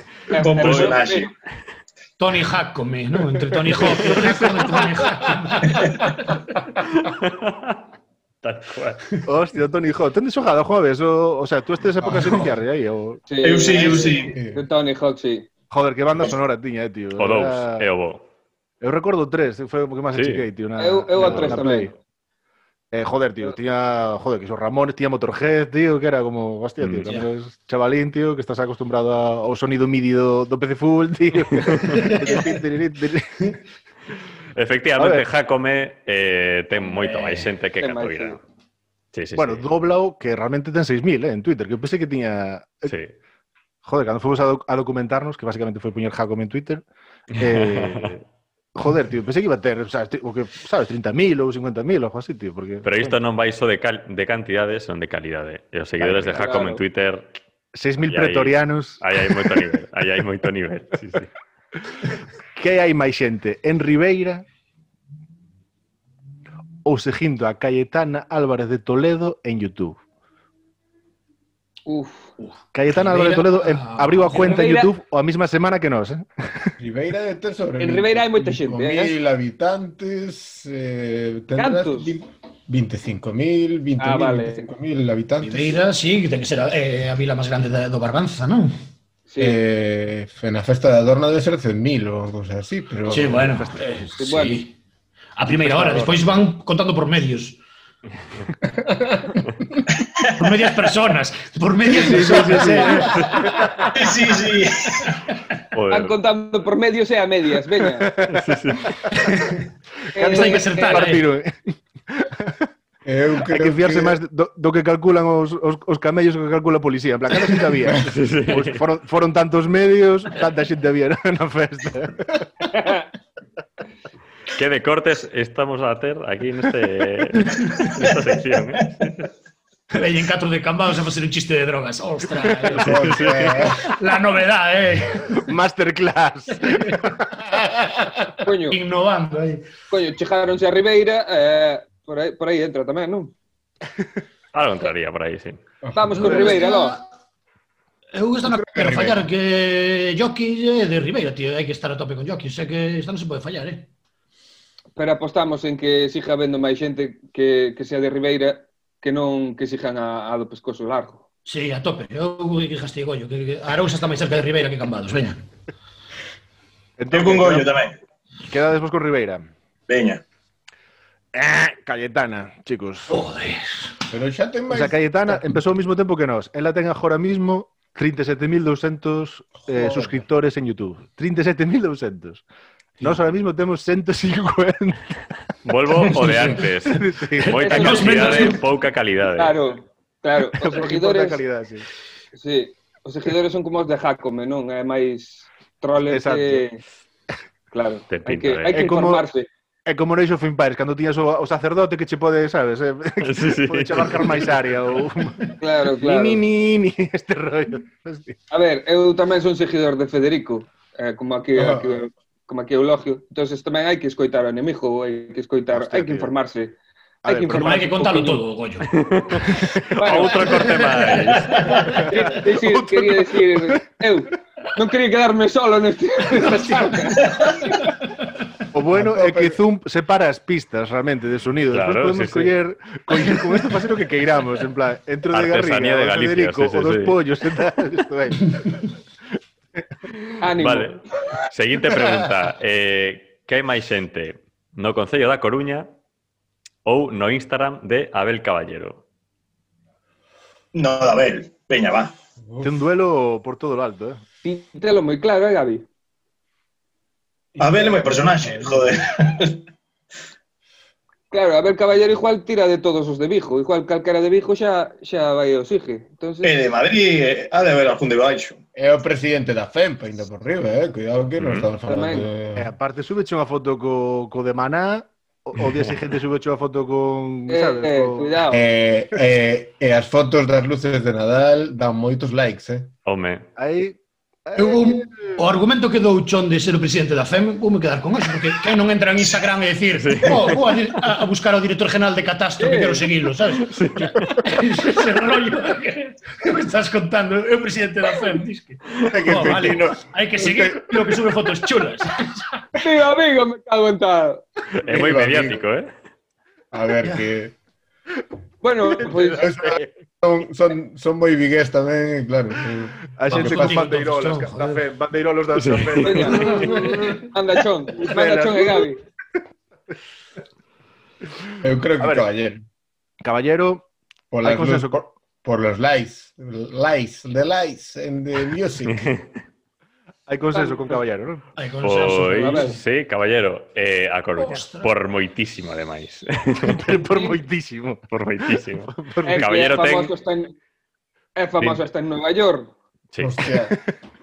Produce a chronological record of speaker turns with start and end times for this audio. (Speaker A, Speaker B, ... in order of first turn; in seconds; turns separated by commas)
Speaker A: 0.3-1.3, Speaker B: 0.4-1.3, Speaker C: 0.6-1.1, Speaker D: 2.2-5.9, Speaker E: 3.7-5.2, Speaker C: 7.0-7.8, Speaker C: 8.4-9.0, Speaker E: 9.3-13.2, Speaker D: 12.0-12.5, Speaker A: 13.3-15.5, Speaker B: 13.4-14.3, Speaker E: 15.7-17.9, Speaker C: 17.2-18.2, Speaker E: 18.8-21.9, Speaker C: 20.1-20.4, Speaker A: 20.8-21.9, Speaker F: 21.2-21.6, Speaker E: 22.9-33.6, Speaker C: 26.8-27.2, Speaker C: 34.6-38.4, Speaker E: 35.0-35.3, Speaker A: 37.8-38.4, Speaker C: 39.1-39.7, Speaker E: 39.4-42.9, Speaker C: 42.9-43.1, Speaker E: 43.8-48.2, Speaker C: 47.4-48.1, Speaker E: 48.8-53.2, Speaker C: 52.8-57.3, Speaker E: 56.0-56.6, Speaker A: 56.4-56.8, Speaker E: 57.7-59.6, Speaker C: 58.1-61.3, Speaker E: 61.9-64.5, Speaker E: 66.8-70.0, Speaker A: 71.9-72.3, Speaker E: 72.7-76.7, Speaker D: 72.9-74.7, Speaker A: 74.3-74.9, Speaker F: 76.8-85.8, Speaker A: 77.8-79.2, Speaker A: 81.6-82.1, Speaker A: 84.0-84.7, Speaker D: 85.4-88.8, Speaker A: 89.3-89.6, Speaker F: 89.4-93.4, Speaker E: 93.1-94.5, Speaker D: 93.1-94.7, Speaker A: 94.2-94.6, Speaker D: 95.4-97.6, Speaker E: 95.5-96.2, Speaker F: 98.9-99.3, Speaker D: 100.4-103.7, Speaker E: 101.9-103.7, Speaker B: 104.0-105.0, Speaker C: 105.7-106.2, Speaker A: 105.9-108.1, Speaker E: 108.1-109.5, Speaker C: 108.3-109.0, Speaker E: 110.1-112.6, Speaker A: 110.2-111.1, Speaker D: 110.2-111.3, Speaker F: 113.1-114.2, Speaker E: 113.5-122.5, Speaker C: 118.0-118.8, Speaker A: 122.7-123.1, Speaker C: 124.5-129.2, Speaker D: 129.9-135.5, Speaker C: 132.7-133.8, Speaker F: 132.8-133.8, Speaker E: 135.3-137.2, Speaker D: 136.6-136.9, Speaker F: 137.5-138.1, Speaker A: 138.4-138.8, Speaker D: 138.7-139.7, Speaker A: 139.9-143.3, Speaker C: 144.5-145.6, Speaker F: 145.8-146.6, Speaker A: 145.9-147.0, Speaker D: 146.1-147.1, Speaker D: 148.2-153.9, Speaker F: 148.4-149.2, Speaker A: 155.0-161.2, Speaker D: 161.5-165.4, Speaker E: 167.0-167.7, Speaker B: 167.1-167.9, Speaker E: 168.5-169.5, Speaker B: 169.9-170.2, Speaker E: 171.3-173.2, Speaker D: 173.1-173.9, Speaker F: 174.1-175.4, Speaker E: 174.7-182.4, Speaker F: 179.6-180.2, Speaker E: 183.0-185.2, Speaker C: 185.7-189.6, Speaker E: 185.9-188.3, Speaker D: 187.6-188.6, Speaker A: 187.6-188.6, Speaker A: 189.4-191.4, Speaker E: 190.6-191.9, Speaker A: 192.3-196.8, Speaker E: 196.1-196.7, Speaker A: 197.7-199.5, Speaker C: 198.1-198.8, Speaker E: 198.7-199.2, Speaker E: 199.9-208.4, Speaker C: 203.2-204.5, Speaker A: 205.6-206.4, Speaker A: 208.5-216.7, Speaker F: 211.6-211.9, Speaker E: 215.7-216.3, Speaker A: 217.2-218.4, Speaker E: 217.2-218.0, Speaker D: 217.5-218.9, Speaker C: 218.9-219.5, Speaker E: 219.5-220.4, Speaker A: 220.0-220.7, Speaker C: 220.0-221.7, Speaker A: 221.8-227.9, Speaker E: 221.8-223.8, Speaker E: 226.3-227.1, Speaker E: 228.7-238.9, Speaker F: 228.9-229.6, Speaker C: 231.7-232.5, Speaker C: 235.3-237.2, Speaker A: 240.4-240.9, Speaker C: 240.5-245.9, Speaker C: 246.8-249.0, Speaker B: 250.7-252.1, Speaker E: 252.6-254.2, Speaker A: 254.4-255.8, Speaker B: 257.6-259.6, Speaker A: 261.3-266.5, Speaker B: 266.4-268.6, Speaker F: 268.8-272.7, Speaker C: 271.4-271.7, Speaker A: 271.9-272.3, Speaker E: 272.6-278.4, Speaker A: 277.5-278.6, Speaker F: 278.5-282.9, Speaker C: 283.1-283.4, Speaker E: 283.6-285.4, Speaker D: 284.6-302.3, Speaker C: 290.0-290.6, Speaker A: 292.6-293.1, Speaker C: 293.7-294.2, Speaker F: 299.0-301.2, Speaker A: 302.8-304.4, Speaker C: 304.8-305.9, Speaker F: 304.9-305.6, Speaker F: 306.7-307.5, Speaker D: 307.0-307.3, Speaker A: 308.6-309.5, Speaker E: 309.0-309.9, Speaker F: 309.2-313.8, Speaker E: 313.1-317.2, Speaker D: 313.3-314.8, Speaker C: 315.6-316.3, Speaker A: 316.0-319.0, Speaker D: 316.6-317.0, Speaker E: 318.0-318.9, Speaker F: 321.6-322.6, Speaker E: 322.0-322.3, Speaker E: 323.2-323.9, Speaker F: 324.3-329.1, Speaker E: 324.4-325.0, Speaker C: 328.9-329.3, Speaker E: 330.3-331.4, Speaker A: 330.5-331.0, Speaker D: 331.6-332.8, Speaker C: 331.8-336.9, Speaker A: 332.4-332.8, Speaker D: 334.4-334.9, Speaker E: 336.6-338.1, Speaker C: 338.1-340.1, Speaker E: 338.9-339.9, Speaker A: 339.3-340.5, Speaker A: 341.4-342.7, Speaker C: 341.6-341.9, Speaker C: 343.1-343.4, Speaker F: 343.2-343.8